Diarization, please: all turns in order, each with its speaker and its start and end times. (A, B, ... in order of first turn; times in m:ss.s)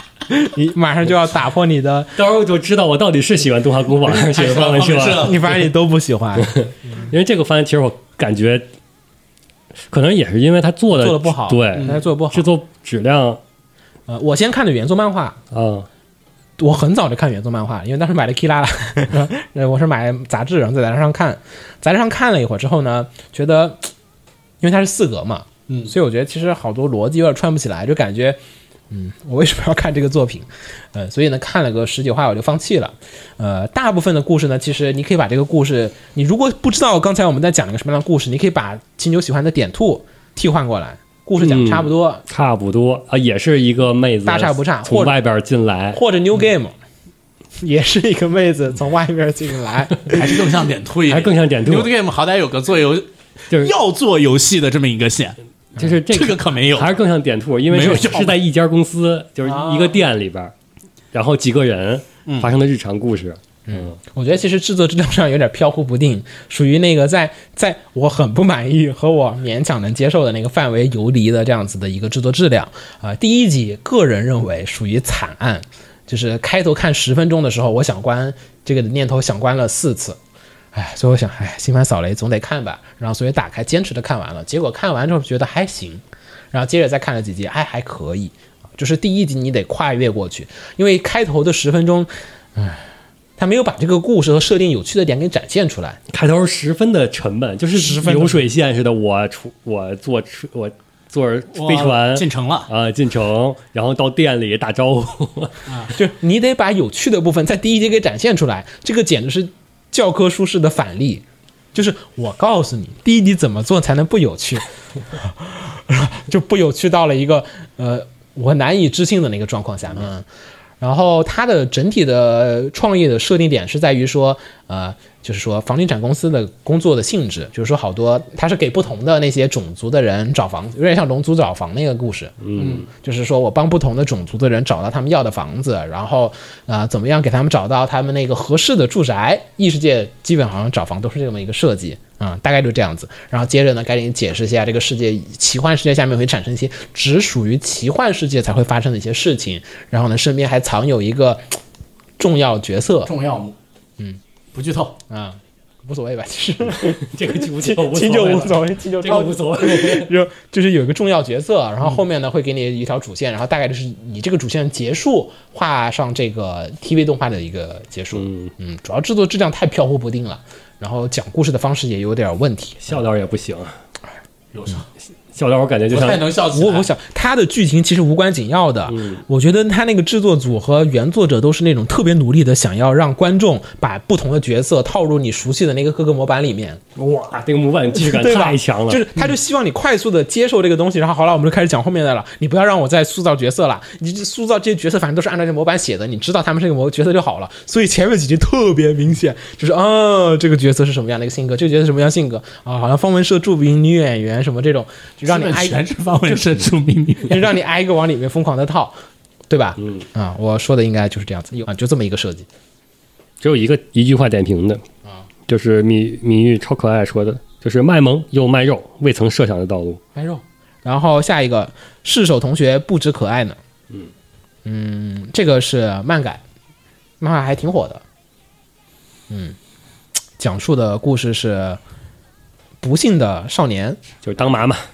0:00.3-0:02.1 A
0:02.1-0:05.4 B
0:04.0-0:05.6 C
0:05.2-0:07.1 A
0:06.4-0:08.6 B
0:09.9-0:13.4 B
0:10.9-0:12.5 A
0:11.8-0:12.0 C
0:14.1-0:15.4 A
0:15.5-0:15.9 B
0:16.6-0:23.9 A
0:24.6-0:28.4 A
0:28.9-0:42.2 A
0:41.4-0:46.0 B
0:44.2-0:45.2 A
0:45.9-0:46.8 A
0:47.6-0:50.4 A
0:50.1-0:55.4 C
0:51.1-0:51.9 B
0:53.5-0:53.7 B
0:55.8-1:00.5 B
0:56.1-0:56.9 C
0:57.7-0:58.4 C
0:59.4-1:00.0 A
1:01.1-1:03.9 B
1:02.2-1:02.5 C
1:03.7-1:20.2 A
1:20.7-1:32.8 A
1:33.4-1:36.0 A
1:36.1-1:45.6 B
1:37.7-1:38.4 A
1:41.5-1:42.7 C
1:45.9-2:00.2 A
2:00.8-2:12.3 A
2:12.4-2:12.9 B
2:12.6-2:12.9 C
2:12.9-2:31.6 A
2:32.2-2:33.1 A
2:33.0-2:33.6 C
2:34.5-2:35.0 C
2:35.1-2:53.0 A
2:36.8-2:40.1 B
2:48.1-2:48.5 B
2:52.8-2:53.8 B
2:54.5-2:54.8 C
2:55.3-2:56.2 B
2:55.9-2:56.9 C
2:56.5-3:06.8 A
2:58.9-2:59.2 B
3:07.0-3:09.0 B
3:07.9-3:25.8 A
3:25.2-3:27.4 C
3:27.2-3:29.0 A
3:29.5-3:32.4 A
3:33.4-3:34.8 B
3:35.5-3:40.0 B
3:40.1-3:43.6 A
3:44.6-3:46.4 A
3:47.2-3:48.0 A
3:49.3-3:49.6 A
3:50.4-3:51.8 A
3:52.8-3:54.0 A
3:54.2-3:54.8 B